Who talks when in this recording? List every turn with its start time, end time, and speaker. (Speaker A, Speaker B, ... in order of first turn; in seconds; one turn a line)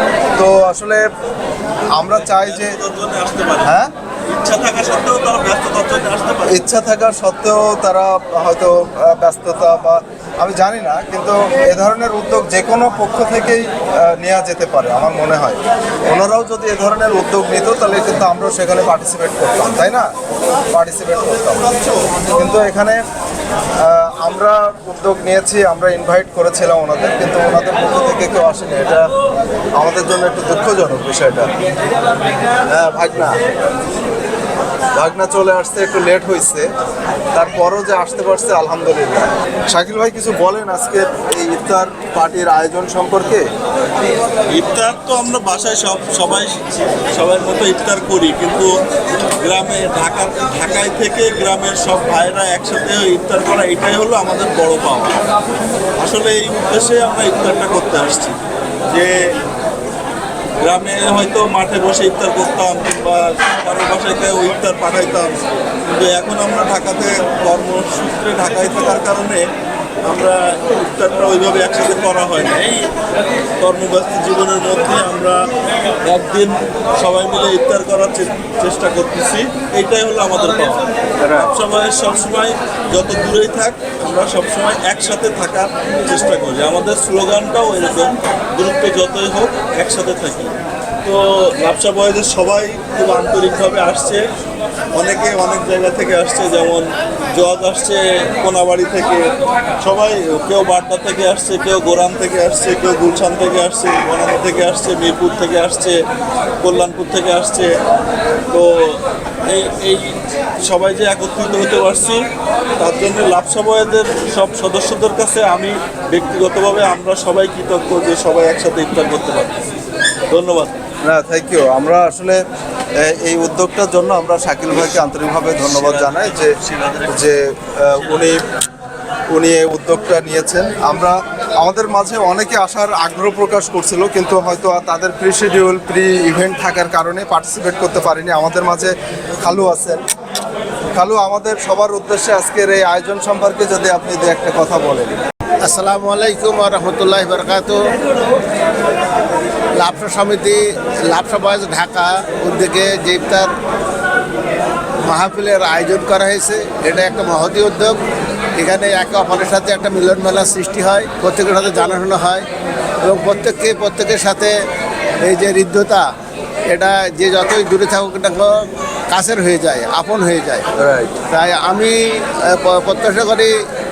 Speaker A: 0.3-1.0
Speaker A: 1.9-2.8
Speaker B: 2.2-3.7
Speaker A: 3.6-3.9
Speaker B: 4.3-6.7
Speaker A: 6.5-20.1
Speaker A: 20.7-21.7
Speaker A: 22.3-23.0
Speaker A: 23.8-29.1
Speaker A: 29.7-31.5
Speaker A: 32.7-33.4
Speaker A: 34.9-36.7
Speaker A: 37.3-43.5
Speaker B: 44.5-48.7
Speaker B: 49.4-55.2
Speaker B: 56.0-58.4
Speaker B: 60.6-65.4
Speaker B: 65.9-69.4
Speaker B: 70.0-72.9
Speaker B: 73.6-75.3
Speaker B: 76.0-94.2
Speaker B: 94.9-99.3
Speaker B: 99.8-105.9
Speaker B: 106.6-107.7
Speaker B: 108.5-112.2
Speaker B: 112.8-119.5
Speaker B: 120.3-120.7
Speaker A: 121.0-122.4
Speaker A: 123.0-126.5
Speaker B: 125.5-127.2
Speaker A: 127.1-128.4
Speaker A: 129.3-140.0
Speaker A: 140.9-145.2
Speaker C: 145.6-147.9
Speaker C: 149.8-153.5
Speaker C: 155.0-158.0
Speaker C: 158.5-162.5
Speaker C: 163.0-164.6
Speaker C: 165.2-166.1
Speaker C: 166.7-170.7
Speaker A: 170.8-171.2
Speaker C: 171.3-173.5